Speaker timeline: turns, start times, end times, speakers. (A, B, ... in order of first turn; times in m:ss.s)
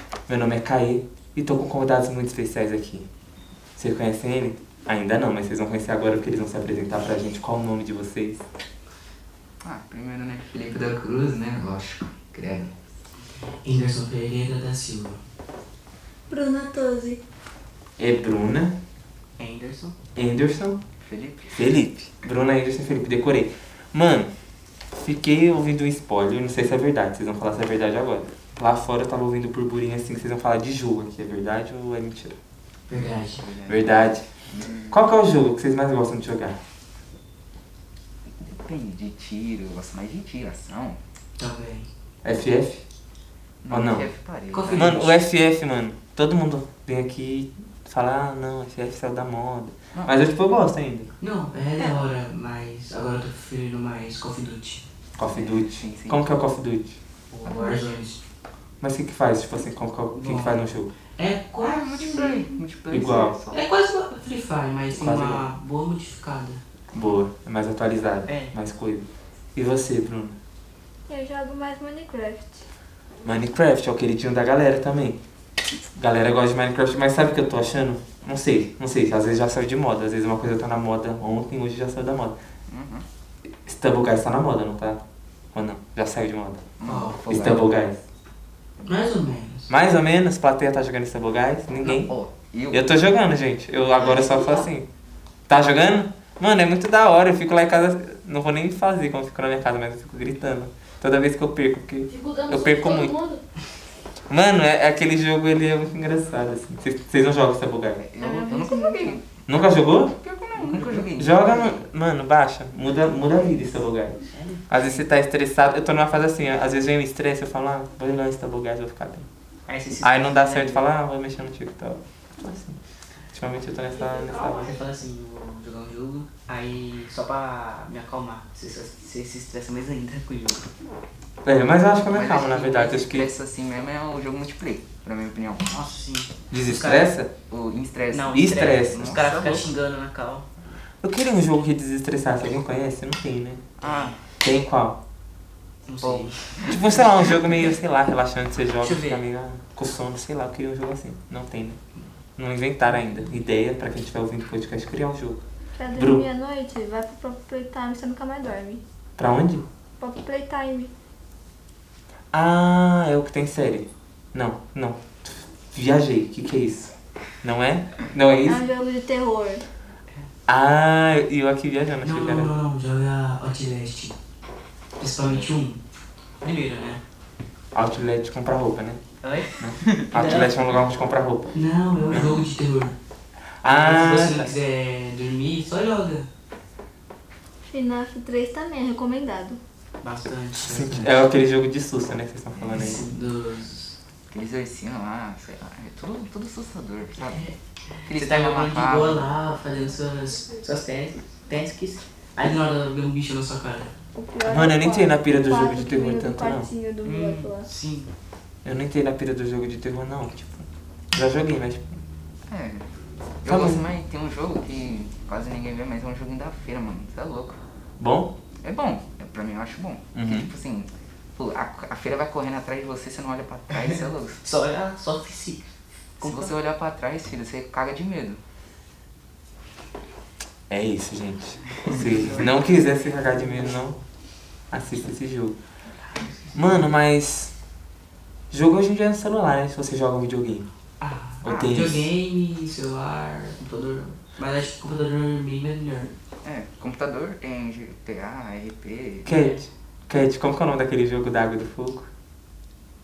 0:00.3-0:03.1 A
0:03.8-0:08.4 A
0:09.6-0:12.7 B
0:13.6-0:15.2 C
0:16.3-0:17.2 D
0:18.0-0:18.8 A
0:19.4-0:20.0 C
0:20.2-0:20.8 A
0:21.0-0:21.6 B
0:21.5-0:24.3 A
0:24.9-0:32.4 A
0:32.9-0:33.4 C
0:33.4-0:35.0 B
0:33.7-0:34.2 A
0:34.9-0:36.6 A
0:38.3-0:41.0 B
0:41.4-0:41.9 C
0:42.2-0:42.8 A
0:43.6-0:45.0 B
0:43.7-0:44.1 A
0:44.5-0:45.1 C
0:44.7-0:51.1 A
0:51.2-0:54.8 C
0:55.2-0:57.0 A
0:55.3-0:56.4 B
0:57.3-0:58.2 C
0:57.4-0:57.9 B
0:58.8-1:00.9 A
1:00.1-1:00.6 C
1:01.2-1:02.4 C
1:01.6-1:03.6 B
1:02.9-1:03.4 A
1:03.5-1:06.6 C
1:04.9-1:05.5 A
1:06.9-1:10.4 A
1:08.3-1:08.5 C
1:11.1-1:12.6 D
1:13.2-1:15.2 A
1:16.0-1:22.4 A
1:22.7-1:23.0 B
1:23.6-1:25.0 A
1:25.5-1:26.6 A
1:26.8-1:27.7 B
1:26.8-1:27.2 C
1:27.3-1:28.0 A
1:28.8-1:29.7 C
1:29.7-1:32.1 A
1:31.8-1:33.0 B
1:32.7-1:34.9 A
1:34.0-1:34.6 E
1:35.5-1:43.2 A
1:42.1-1:43.4 E
1:44.3-1:48.0 A
1:48.0-1:51.8 B
1:48.2-1:49.2 D
1:49.5-1:50.2 A
1:50.5-1:51.1 C
1:51.1-1:59.3 A
1:54.3-1:55.0 C
1:59.7-2:00.8 C
2:00.0-2:02.8 A
2:03.3-2:04.8 A
2:04.3-2:10.6 C
2:11.4-2:13.3 A
2:12.1-2:15.8 B
2:15.7-2:17.1 C
2:16.5-2:17.3 A
2:17.5-2:19.7 B
2:18.1-2:20.5 C
2:18.3-2:19.2 A
2:21.0-2:23.6 A
2:23.8-2:24.3 B
2:24.4-2:25.0 A
2:25.8-2:26.4 C
2:26.0-2:26.8 B
2:26.7-2:31.8 A
2:28.8-2:29.2 C
2:32.4-2:35.4 A
2:35.8-2:38.8 D
2:36.0-2:36.2 A
2:39.2-2:39.6 A
2:40.0-2:40.9 D
2:42.3-2:48.6 A
2:48.4-2:49.6 D
2:50.5-2:52.5 A
2:52.0-2:54.2 C
2:55.0-2:55.8 C
2:56.4-2:57.0 C
2:57.7-2:59.0 A
2:59.2-3:00.5 C
2:59.6-3:01.6 A
3:01.5-3:03.0 C
3:02.1-3:02.4 A
3:03.6-3:04.5 A
3:03.6-3:06.3 C
3:07.7-3:09.6 D
3:10.0-3:11.2 C
3:10.6-3:13.0 A
3:12.6-3:14.0 C
3:14.3-3:17.4 B
3:17.2-3:23.9 C
3:18.1-3:19.3 B
3:24.1-3:27.7 D
3:24.4-3:26.7 A
3:27.0-3:28.1 C
3:28.6-3:32.0 A
3:32.5-3:32.8 B
3:33.4-3:37.6 B
3:33.4-3:33.8 A
3:38.0-3:38.3 A
3:38.6-3:44.4 B
3:40.1-3:40.5 A
3:43.8-3:46.5 C
3:46.2-3:48.4 B
3:50.7-3:54.0 A
3:51.9-3:52.7 C
3:54.7-3:55.6 A
3:56.0-3:56.9 C
3:56.5-3:57.5 A
3:58.5-4:00.7 A
4:01.0-4:06.1 C
4:01.4-4:02.1 A
4:06.4-4:09.3 B
4:09.2-4:09.6 C
4:09.2-4:12.1 A